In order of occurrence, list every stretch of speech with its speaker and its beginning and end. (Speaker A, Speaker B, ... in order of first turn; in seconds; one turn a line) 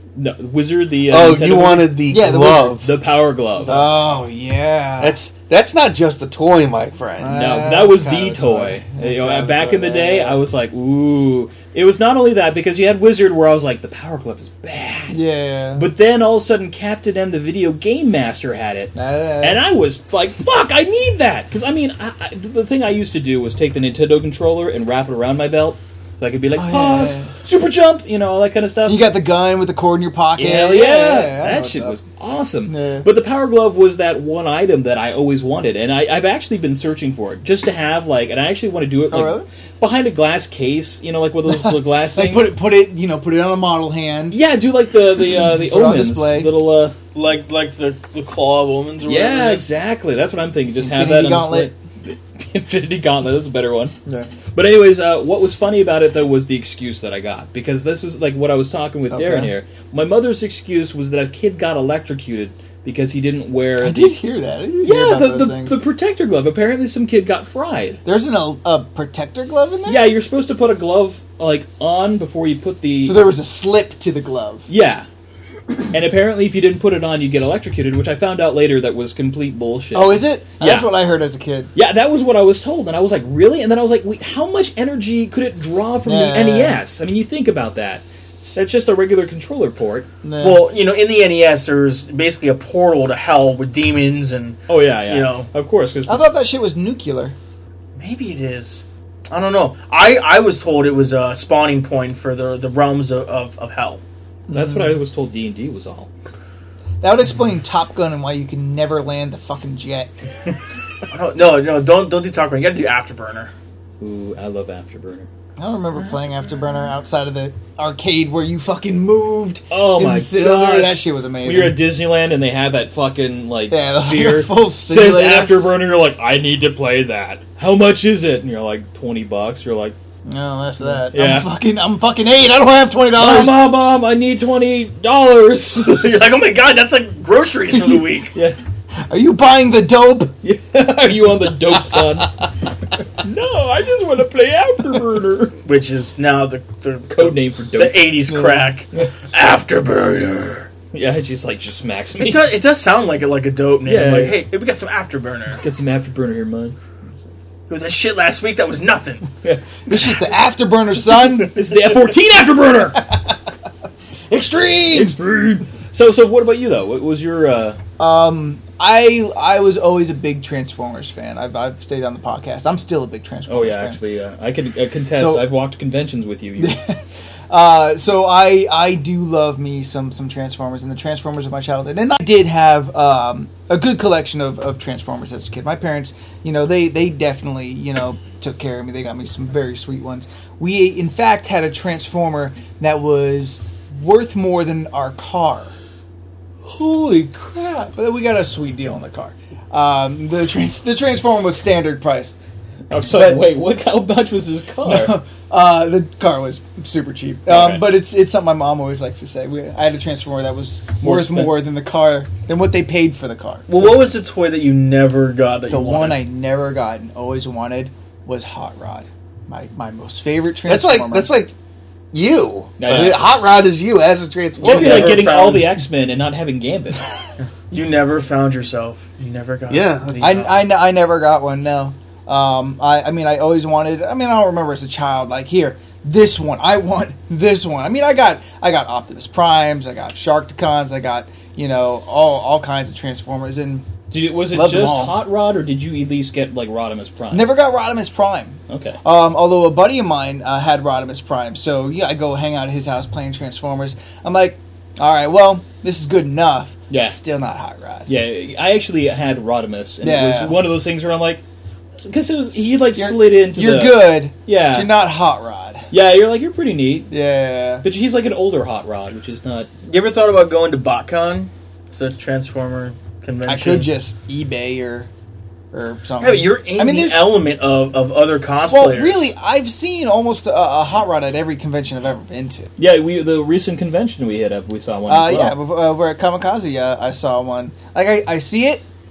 Speaker A: 0.1-2.1
Speaker B: 1.1-3.0
Speaker C: 2.1-2.8
Speaker A: 2.8-3.9
Speaker C: 3.6-5.2
Speaker B: 5.0-7.4
Speaker C: 7.2-10.4
Speaker A: 7.3-15.2
Speaker C: 15.1-15.9
Speaker A: 15.8-29.1
Speaker C: 18.9-19.6
Speaker C: 26.6-27.3
Speaker C: 28.9-32.0
Speaker A: 30.4-42.5
Speaker C: 32.7-33.1
Speaker C: 39.1-39.5
Speaker C: 41.5-44.4
Speaker A: 44.3-47.0
Speaker C: 45.4-46.5
Speaker D: 47.1-49.7
Speaker A: 49.0-54.0
Speaker C: 50.8-51.7
Speaker C: 54.0-54.3
Speaker A: 54.5-64.2
Speaker C: 59.1-59.5
Speaker C: 63.8-65.8
Speaker A: 64.8-68.0
Speaker C: 68.0-70.1
Speaker A: 69.9-73.2
Speaker C: 73.0-74.7
Speaker A: 74.7-75.1
Speaker A: 75.9-80.9
Speaker C: 79.9-81.7
Speaker A: 81.8-88.0
Speaker C: 86.0-86.8
Speaker A: 88.5-90.1
Speaker C: 90.2-90.6
Speaker D: 90.4-95.5
Speaker A: 94.7-96.3
Speaker C: 96.1-97.3
Speaker D: 98.0-104.0
Speaker C: 104.5-105.0
Speaker A: 104.5-106.1
Speaker C: 107.0-110.1
Speaker D: 111.1-113.5
Speaker A: 114.0-115.3
Speaker C: 115.6-121.8
Speaker A: 119.7-129.9
Speaker C: 123.7-125.6
Speaker C: 130.3-133.7
Speaker A: 130.8-131.5
Speaker A: 133.2-136.2
Speaker D: 135.8-138.3
Speaker C: 139.0-140.4
Speaker A: 140.4-142.4
Speaker A: 143.2-145.6
Speaker D: 145.7-150.7
Speaker A: 147.1-148.2
Speaker C: 148.3-148.7
Speaker A: 150.9-152.5
Speaker D: 152.2-155.6
Speaker A: 153.8-154.4
Speaker A: 155.6-156.8
Speaker D: 157.7-159.3
Speaker A: 159.4-160.2
Speaker C: 159.9-161.7
Speaker A: 161.4-163.1
Speaker C: 163.0-163.3
Speaker C: 164.3-165.2
Speaker A: 164.9-167.8
Speaker C: 168.0-174.0
Speaker A: 173.5-176.8
Speaker C: 175.1-175.5
Speaker C: 176.6-195.7
Speaker C: 196.7-202.3
Speaker A: 202.9-205.2
Speaker C: 203.1-203.5
Speaker C: 204.8-213.7
Speaker A: 207.5-207.8
Speaker A: 211.1-211.4
Speaker D: 213.7-216.2
Speaker C: 215.7-221.3
Speaker B: 220.7-221.5
Speaker B: 222.1-225.3
Speaker A: 222.8-223.2
Speaker D: 224.6-225.8
Speaker A: 224.6-227.1
Speaker D: 227.7-230.5
Speaker B: 229.7-230.5
Speaker C: 230.2-243.9
Speaker A: 244.1-247.5
Speaker C: 244.5-245.2
Speaker C: 247.3-258.1
Speaker A: 248.7-249.0
Speaker A: 256.9-257.2
Speaker A: 258.1-261.4
Speaker C: 260.0-260.6
Speaker A: 262.0-264.9
Speaker C: 262.9-265.9
Speaker A: 265.9-267.1
Speaker C: 267.1-267.8
Speaker A: 267.8-269.7
Speaker D: 269.9-273.9
Speaker C: 273.5-275.1
Speaker C: 275.7-277.3
Speaker D: 276.2-279.3
Speaker C: 278.7-282.7
Speaker A: 282.8-285.6
Speaker C: 285.1-288.8